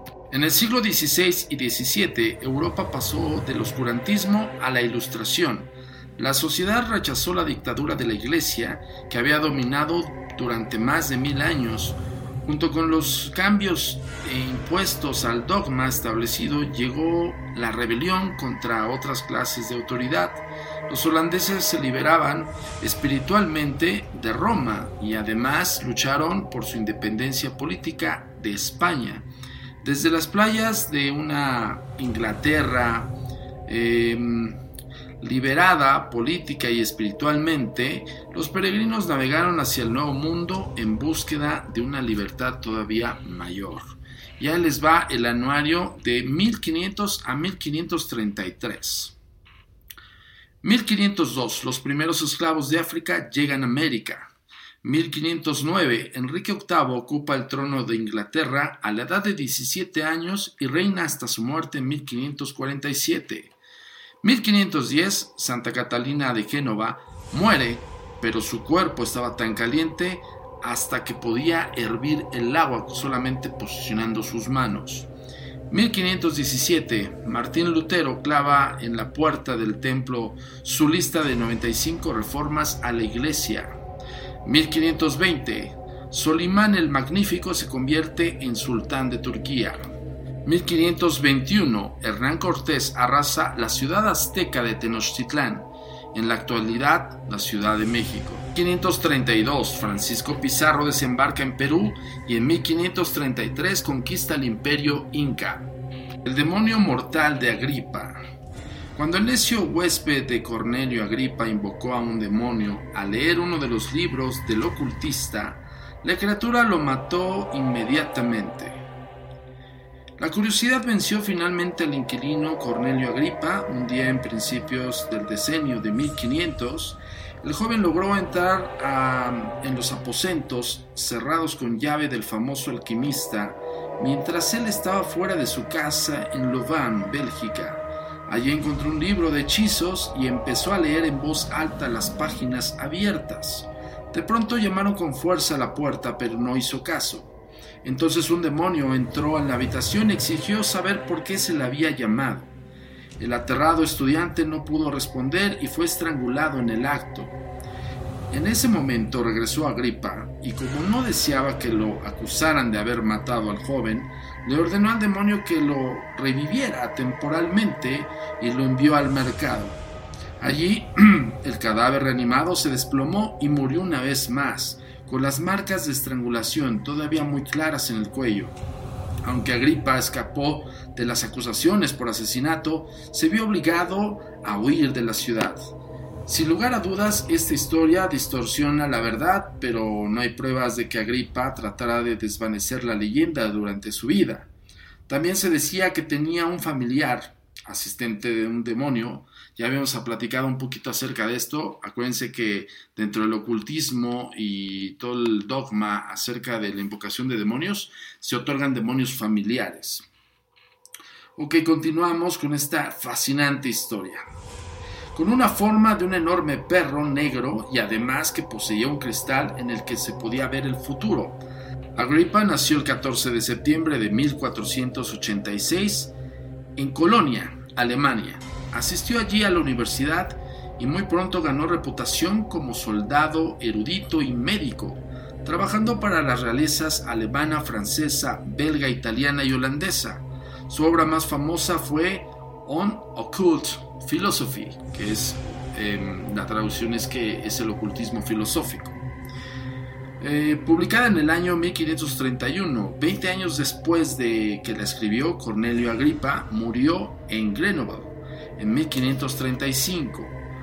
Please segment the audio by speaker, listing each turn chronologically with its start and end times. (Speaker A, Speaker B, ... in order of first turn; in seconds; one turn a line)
Speaker A: 0.3-29.3
Speaker A: 29.8-33.1
Speaker A: 33.7-34.6
Speaker A: 35.2-49.1
Speaker A: 50.6-63.5
Speaker A: 64.2-75.1
Speaker A: 75.7-83.8
Speaker A: 84.4-89.8
Speaker A: 90.4-105.7
Speaker A: 106.2-108.2
Speaker A: 109.0-118.8
Speaker A: 120.2-147.3
Speaker A: 147.8-152.5
Speaker A: 153.2-157.4
Speaker A: 158.3-169.8
Speaker A: 170.4-178.6
Speaker A: 179.2-185.6
Speaker A: 186.3-194.5
Speaker A: 195.1-210.1
Speaker A: 211.4-214.2
Speaker A: 215.1-221.4
Speaker A: 221.9-226.1
Speaker A: 226.8-249.0
Speaker A: 250.2-260.4